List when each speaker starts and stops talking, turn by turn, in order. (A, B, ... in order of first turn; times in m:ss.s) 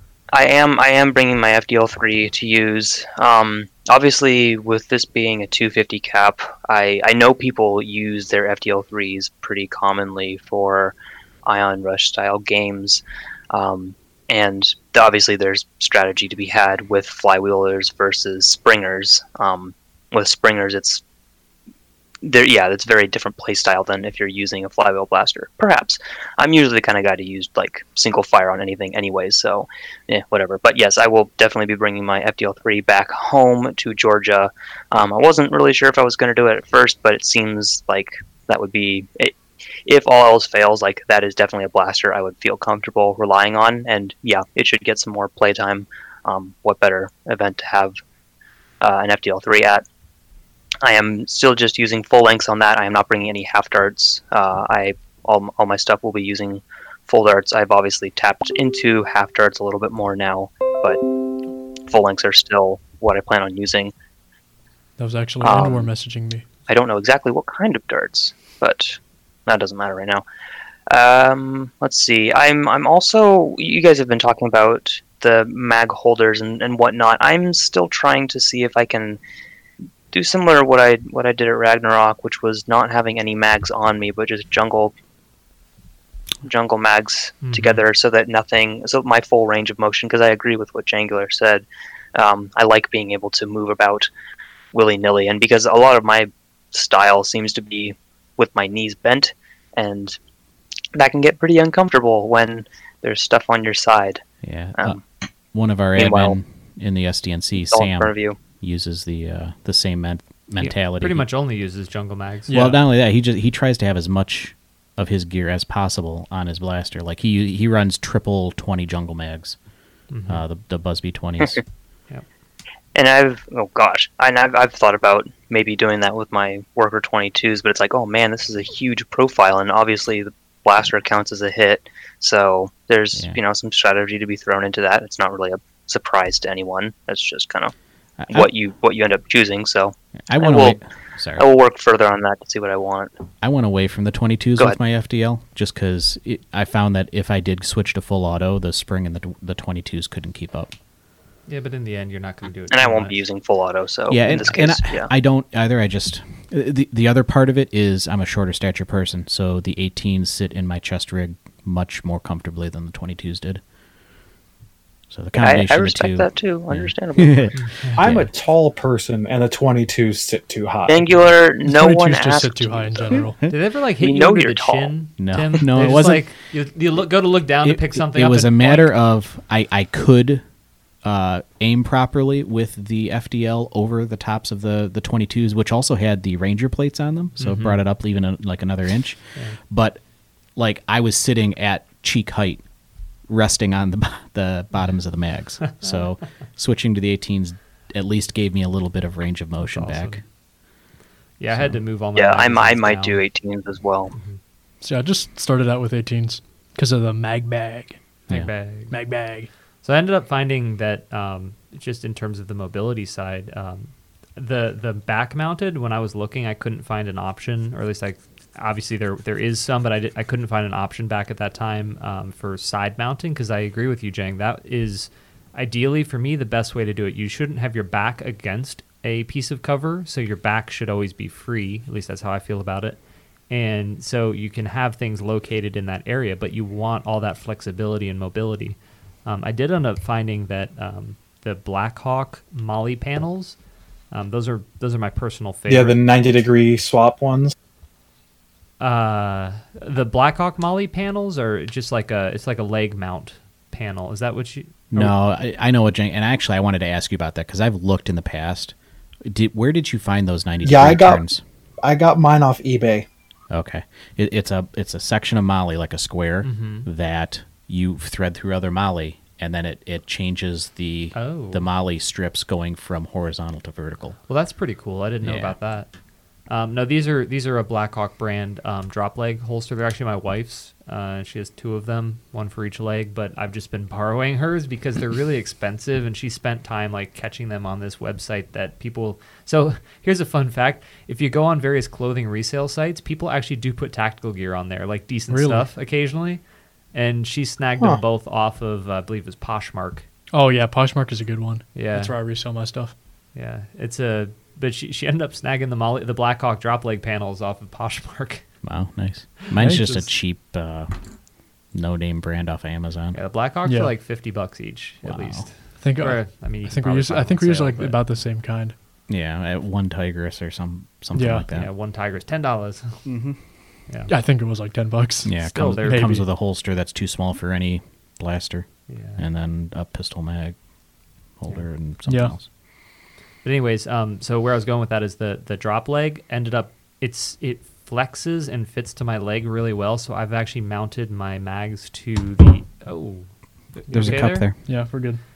0:00.3-0:21.0 A
0:22.2-0:48.0 A
0:48.8-0:49.8 A
0:50.8-1:01.0 A
1:01.9-1:03.9 A
1:05.0-1:06.4 B
1:05.4-1:05.9 A
1:06.7-1:10.2 A
1:10.9-1:19.2 A
1:20.1-1:24.9 A
1:26.4-1:34.1 A
1:27.4-1:27.8 C
1:34.7-1:40.2 A
1:40.9-1:44.2 A
1:44.4-1:45.0 D
1:44.8-1:45.0 A
1:45.5-1:51.2 D
1:46.0-1:46.4 A
1:47.6-1:48.4 A
1:50.6-1:52.6 C
1:52.5-1:52.8 B
1:52.5-1:59.6 D
2:00.1-2:00.4 C
2:00.3-2:01.6 D
2:02.9-2:17.7 A
2:18.2-2:18.5 D
2:18.3-2:20.8 A
2:20.3-2:21.4 D
2:21.4-2:23.1 A
2:23.4-2:30.7 D
2:31.5-2:33.2 C
2:32.7-2:35.1 A
2:34.1-2:43.6 D
2:45.1-2:48.3 D
2:45.4-2:47.6 A
2:47.6-2:48.0 C
2:47.9-2:51.3 E
2:50.9-2:53.2 A
2:51.6-2:53.4 B
2:53.5-2:58.9 C
2:54.0-2:54.9 A
2:55.2-2:56.3 D
2:57.6-3:00.4 D
3:01.0-3:10.0 D
3:07.4-3:07.8 C
3:10.6-3:12.6 D
3:13.3-3:20.2 D
3:15.6-3:16.1 C
3:19.6-3:20.2 C
3:21.4-3:23.2 C
3:21.5-3:21.8 D
3:22.2-3:24.1 A
3:24.1-3:24.4 C
3:24.8-3:28.0 B
3:28.3-3:29.0 C
3:28.9-3:29.5 B
3:29.8-3:53.0 C
3:53.5-4:03.6 C
4:04.1-4:06.0 C
4:05.7-4:07.5 E
4:08.8-4:15.1 C
4:14.9-4:21.4 D
4:20.6-4:21.2 E
4:21.8-4:23.1 E
4:23.5-4:34.2 D
4:26.4-4:26.9 C
4:31.1-4:31.6 C
4:34.3-4:35.9 C
4:35.2-4:35.5 D
4:36.5-4:56.4 C
4:55.3-4:55.6 B
4:56.9-5:00.0 C
5:00.3-5:02.9 B
5:01.7-5:02.1 C
5:03.3-5:08.4 C
5:08.6-5:10.9 D
5:09.6-5:10.1 B
5:11.7-5:13.2 D
5:13.1-5:18.0 C
5:13.6-5:13.9 B
5:15.0-5:15.4 D
5:15.8-5:18.7 B
5:19.1-5:21.7 D
5:21.1-5:21.4 B
5:21.5-5:23.0 C
5:23.0-5:23.4 D
5:24.1-5:26.2 B
5:25.2-5:30.5 D
5:25.4-5:26.2 C
5:28.9-5:29.2 C
5:31.4-5:32.5 D
5:32.1-5:32.3 B
5:33.4-5:44.5 C
5:43.9-5:44.6 D
5:44.0-5:45.2 B